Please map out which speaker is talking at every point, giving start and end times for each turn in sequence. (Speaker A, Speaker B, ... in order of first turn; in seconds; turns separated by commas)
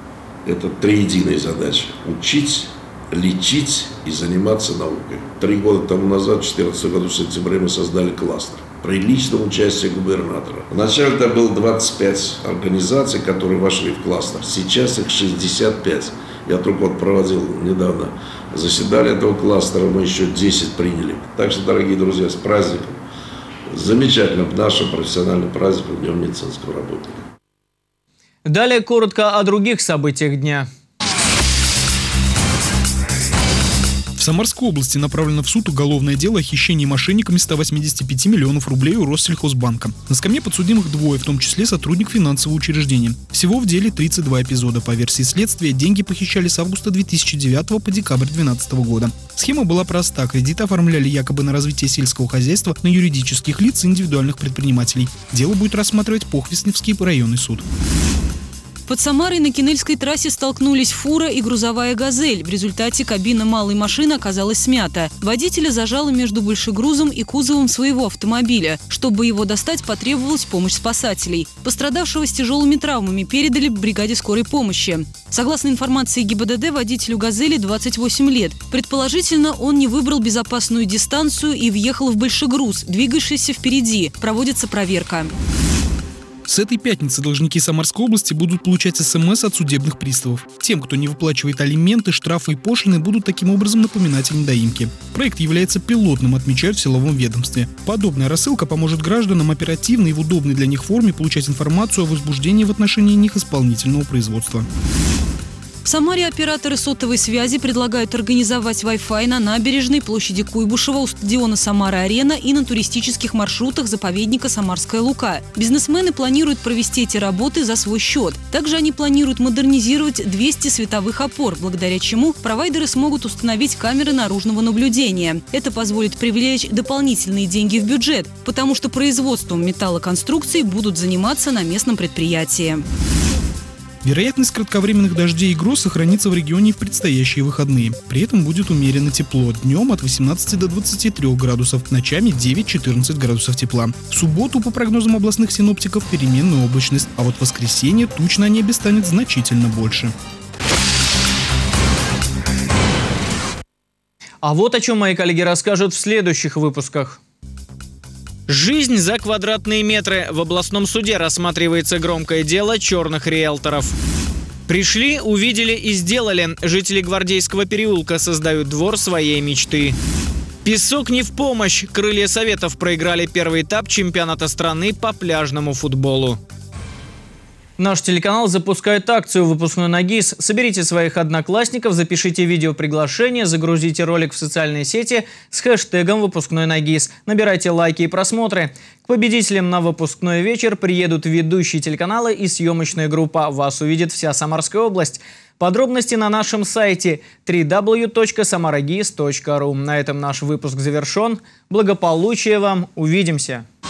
Speaker A: 0.5-23.0, Speaker A: 23.7-27.2, Speaker B: 28.5-30.7, Speaker C: 34.2-57.6, Speaker D: 58.9-85.3, Speaker C: 86.5-104.7, Speaker D: 105.8-132.8, Speaker C: 134.0-150.1, Speaker B: 154.4-157.2, Speaker B: 158.5-164.0, Speaker B: 164.7-170.0, Speaker B: 170.6-176.4, Speaker B: 177.8-203.7